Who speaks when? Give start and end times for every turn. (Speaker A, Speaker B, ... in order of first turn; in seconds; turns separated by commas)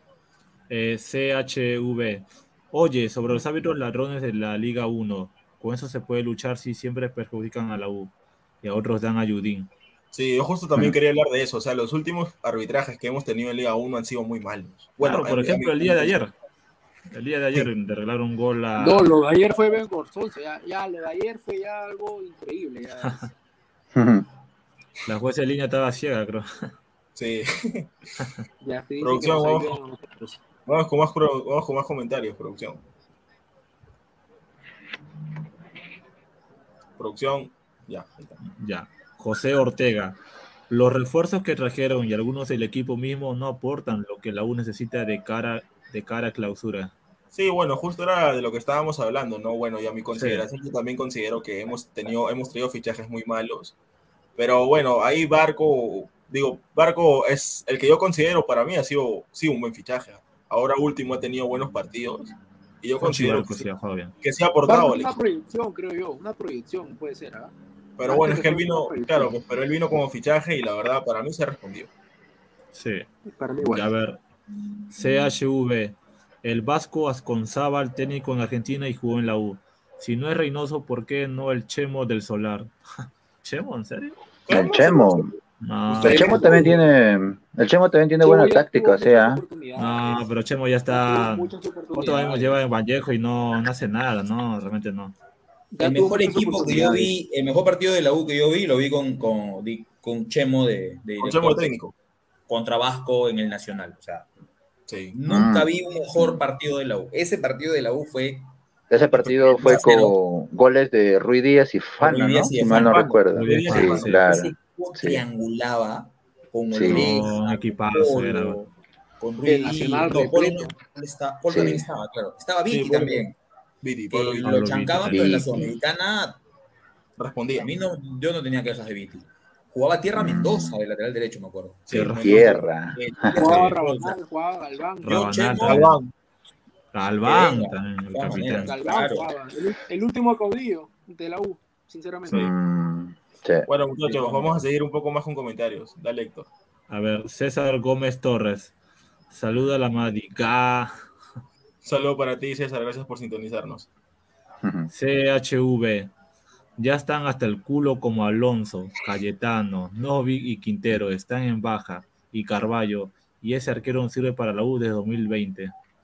Speaker A: 0.7-9.7, Speaker B: 10.1-16.1, Speaker A: 15.0-16.3, Speaker A: 17.1-19.1, Speaker C: 18.8-23.3, Speaker D: 23.9-24.2, Speaker A: 25.1-26.7, Speaker B: 27.1-27.9, Speaker C: 28.6-30.4, Speaker B: 29.0-29.7, Speaker B: 30.6-32.8, Speaker B: 37.0-38.4, Speaker A: 38.4-40.2, Speaker A: 40.7-46.9, Speaker B: 47.3-53.7, Speaker A: 50.1-50.5, Speaker B: 54.4-63.6, Speaker A: 63.0-64.1, Speaker B: 64.2-65.1, Speaker C: 64.7-67.5, Speaker B: 68.0-71.9, Speaker C: 68.0-69.3, Speaker A: 72.7-73.1, Speaker C: 73.2-73.8, Speaker A: 73.6-74.2, Speaker A: 74.9-84.2, Speaker B: 84.5-85.3, Speaker D: 84.5-85.3, Speaker A: 85.6-86.5, Speaker D: 86.0-89.4, Speaker C: 86.0-86.8, Speaker B: 86.1-86.6, Speaker C: 88.2-90.3, Speaker A: 89.8-95.1, Speaker C: 90.9-92.6, Speaker C: 95.7-97.0, Speaker E: 95.8-101.7, Speaker D: 96.5-97.1, Speaker B: 101.2-101.9, Speaker E: 102.5-104.3, Speaker B: 104.9-105.1, Speaker E: 105.1-108.5, Speaker D: 105.2-106.4, Speaker D: 108.9-115.2, Speaker E: 109.2-110.2, Speaker E: 112.0-113.1, Speaker B: 112.6-114.2, Speaker A: 113.3-114.2, Speaker E: 114.2-123.4, Speaker D: 116.7-117.2, Speaker A: 116.8-118.6, Speaker C: 119.4-120.7, Speaker D: 121.5-121.9, Speaker B: 122.7-123.3, Speaker B: 123.8-124.9, Speaker E: 124.1-126.4, Speaker A: 124.4-125.3, Speaker D: 125.1-125.7, Speaker B: 127.2-127.7, Speaker E: 127.5-131.9, Speaker D: 130.1-130.8, Speaker B: 131.9-133.9, Speaker A: 131.9-132.5, Speaker D: 132.2-133.3, Speaker C: 133.3-135.2, Speaker E: 133.3-133.7, Speaker A: 133.4-133.8, Speaker A: 135.0-136.0, Speaker E: 135.1-135.8, Speaker B: 135.6-136.1, Speaker A: 136.9-138.8, Speaker E: 137.2-139.3, Speaker C: 138.6-142.4, Speaker D: 142.3-143.7, Speaker B: 143.7-146.5, Speaker A: 146.9-148.7, Speaker A: 149.3-151.0, Speaker B: 151.8-153.9, Speaker D: 154.6-154.9, Speaker A: 154.9-156.1, Speaker A: 156.8-165.7